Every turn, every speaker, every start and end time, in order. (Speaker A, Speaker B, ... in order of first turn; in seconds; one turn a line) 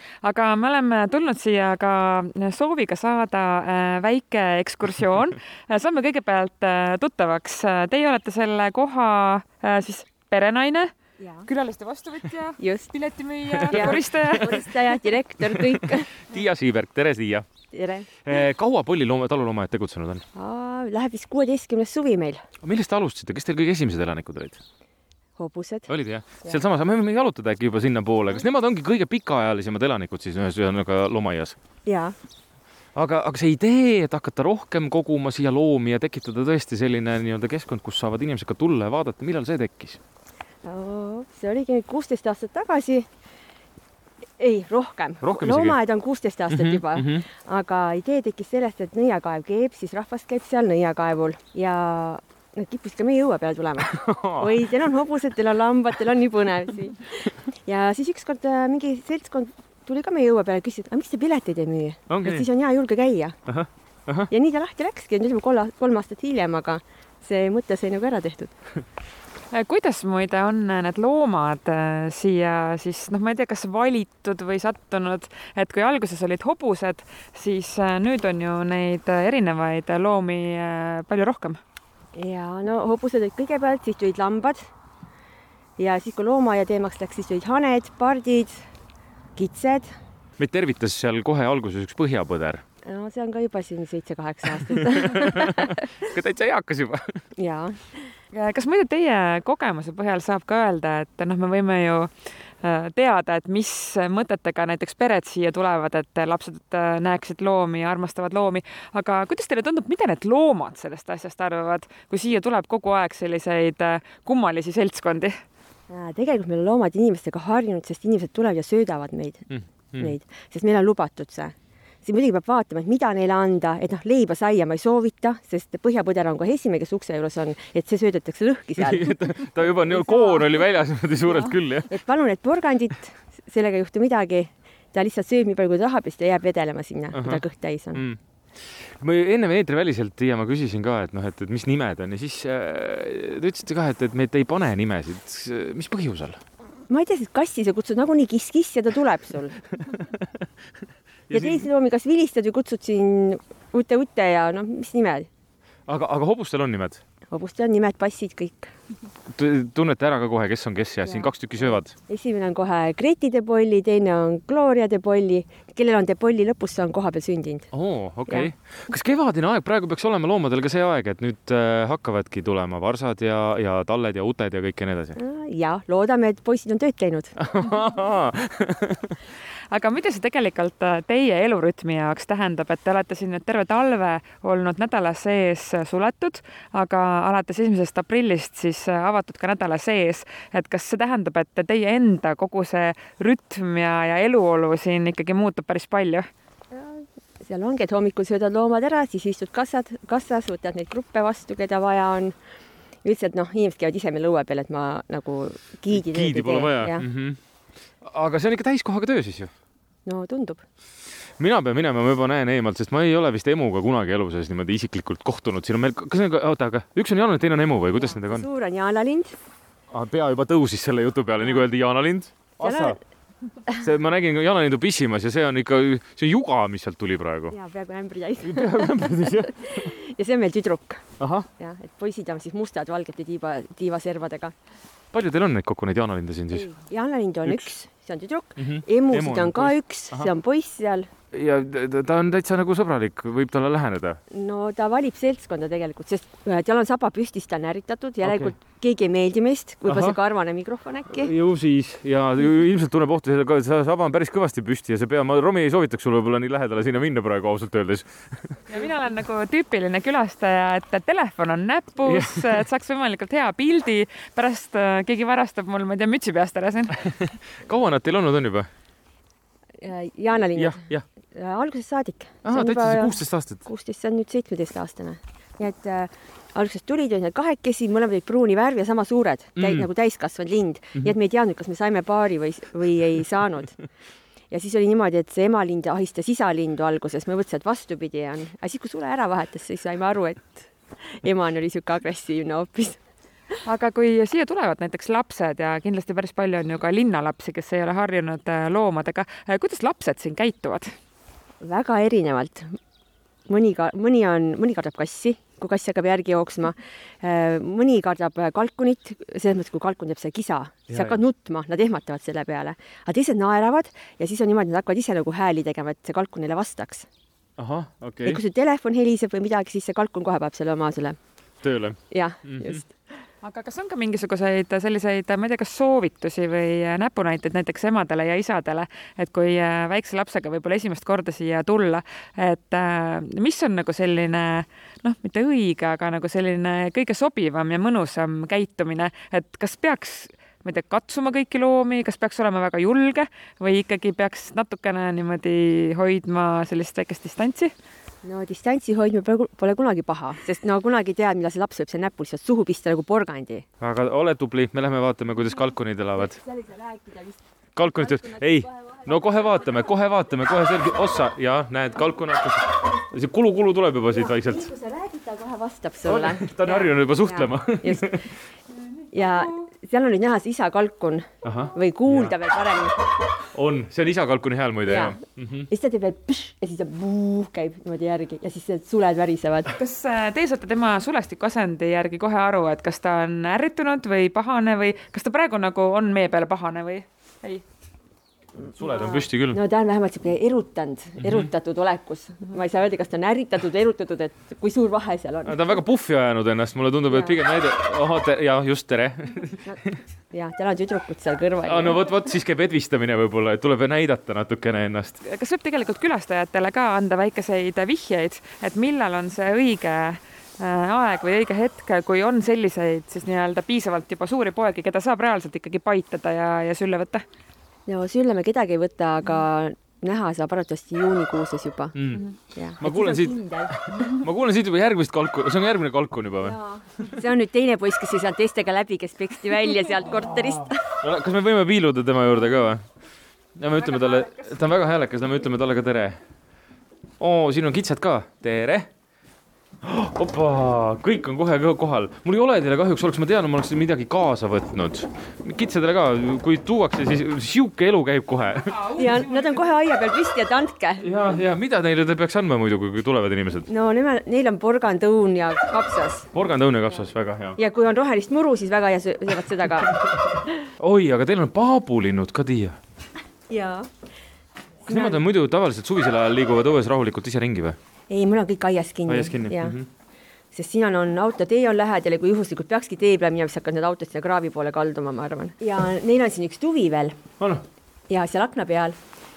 Speaker A: 0.2-10.9
Speaker B: 11.2-11.5
Speaker A: 11.4-14.7
Speaker B: 12.6-12.9
Speaker C: 13.5-14.6
Speaker B: 13.7-16.1
Speaker C: 15.4-17.5
Speaker B: 17.7-18.1
Speaker C: 18.2-20.2
Speaker B: 20.3-22.4
Speaker C: 22.6-24.6
Speaker B: 25.4-25.9
Speaker C: 25.9-31.6
Speaker B: 31.9-32.1
Speaker C: 32.9-40.0
Speaker B: 40.6-43.1
Speaker B: 44.4-63.4
Speaker C: 45.2-45.8
Speaker C: 46.5-47.2
Speaker C: 53.8-54.5
Speaker C: 62.1-62.5
Speaker C: 63.5-64.3
Speaker B: 64.3-68.5
Speaker A: 69.5-81.6
Speaker B: 82.1-84.7
Speaker B: 85.8-88.6
Speaker B: 89.3-89.9
Speaker C: 90.4-92.6
Speaker B: 92.8-95.8
Speaker C: 94.7-97.2
Speaker B: 97.4-98.0
Speaker A: 98.3-102.1
Speaker A: 102.6-115.4
Speaker B: 115.9-129.2
Speaker C: 119.5-120.1
Speaker C: 128.8-131.9
Speaker B: 129.9-130.6
Speaker B: 131.2-138.0
Speaker C: 137.1-137.4
Speaker C: 137.9-138.2
Speaker C: 139.0-146.4
Speaker B: 146.9-149.6
Speaker C: 151.3-151.7
Speaker B: 151.3-155.3
Speaker C: 155.9-157.0
Speaker B: 157.3-158.7
Speaker C: 159.3-161.9
Speaker B: 161.0-167.7
Speaker C: 167.7-175.2
Speaker B: 175.2-177.4
Speaker C: 177.4-179.2
Speaker A: 179.7-196.2
Speaker B: 196.7-202.3
Speaker B: 203.0-207.1
Speaker C: 205.9-207.4
Speaker C: 208.0-209.5
Speaker B: 210.1-210.6
Speaker C: 211.4-218.4
Speaker B: 218.0-219.3
Speaker C: 219.9-223.0
Speaker B: 222.6-223.0
Speaker C: 223.7-227.6
Speaker B: 227.5-231.1
Speaker C: 228.4-229.9
Speaker C: 231.2-231.5
Speaker B: 231.6-234.5
Speaker C: 235.1-236.7
Speaker B: 236.5-241.1
Speaker C: 237.4-237.7
Speaker C: 238.6-240.3
Speaker C: 241.3-244.2
Speaker B: 244.3-251.3
Speaker C: 248.2-248.5
Speaker C: 249.9-250.2
Speaker C: 251.1-258.6
Speaker A: 258.7-267.0
Speaker C: 262.0-262.6
Speaker C: 267.2-268.7
Speaker B: 269.8-283.8
Speaker C: 270.5-271.0
Speaker C: 272.4-273.6
Speaker C: 279.6-279.9
Speaker B: 284.5-293.0
Speaker A: 293.6-300.9
Speaker B: 301.6-302.7
Speaker B: 303.5-317.1
Speaker C: 310.9-311.2
Speaker C: 317.6-318.4
Speaker B: 318.2-321.2
Speaker C: 321.6-322.8
Speaker B: 322.1-322.9
Speaker A: 323.4-347.7
Speaker B: 348.2-353.6
Speaker C: 353.8-356.4
Speaker B: 356.4-357.4
Speaker C: 357.8-364.7
Speaker B: 358.1-358.5
Speaker B: 364.1-368.2
Speaker C: 366.0-368.3
Speaker B: 369.1-373.0
Speaker C: 371.4-372.3
Speaker C: 373.5-375.7
Speaker B: 374.8-379.7
Speaker A: 379.8-387.6
Speaker C: 388.7-389.6
Speaker B: 388.8-395.6
Speaker C: 391.2-391.5
Speaker C: 395.4-400.0
Speaker B: 397.1-397.4
Speaker B: 400.3-402.0
Speaker C: 401.6-405.2
Speaker A: 405.2-417.2
Speaker B: 417.9-422.0
Speaker C: 421.9-427.0
Speaker B: 422.5-424.2
Speaker B: 426.4-430.8
Speaker C: 431.0-432.9
Speaker C: 433.6-436.2
Speaker C: 437.2-438.9
Speaker C: 439.8-449.0
Speaker A: 448.8-449.5
Speaker B: 448.9-451.1
Speaker C: 451.0-453.7
Speaker B: 453.7-456.3
Speaker C: 456.3-457.6
Speaker B: 457.6-460.5
Speaker C: 460.8-462.8
Speaker B: 463.5-463.9
Speaker B: 464.9-465.2
Speaker C: 464.9-467.8
Speaker B: 468.1-469.8
Speaker C: 469.1-469.9
Speaker B: 470.5-477.2
Speaker B: 478.1-478.9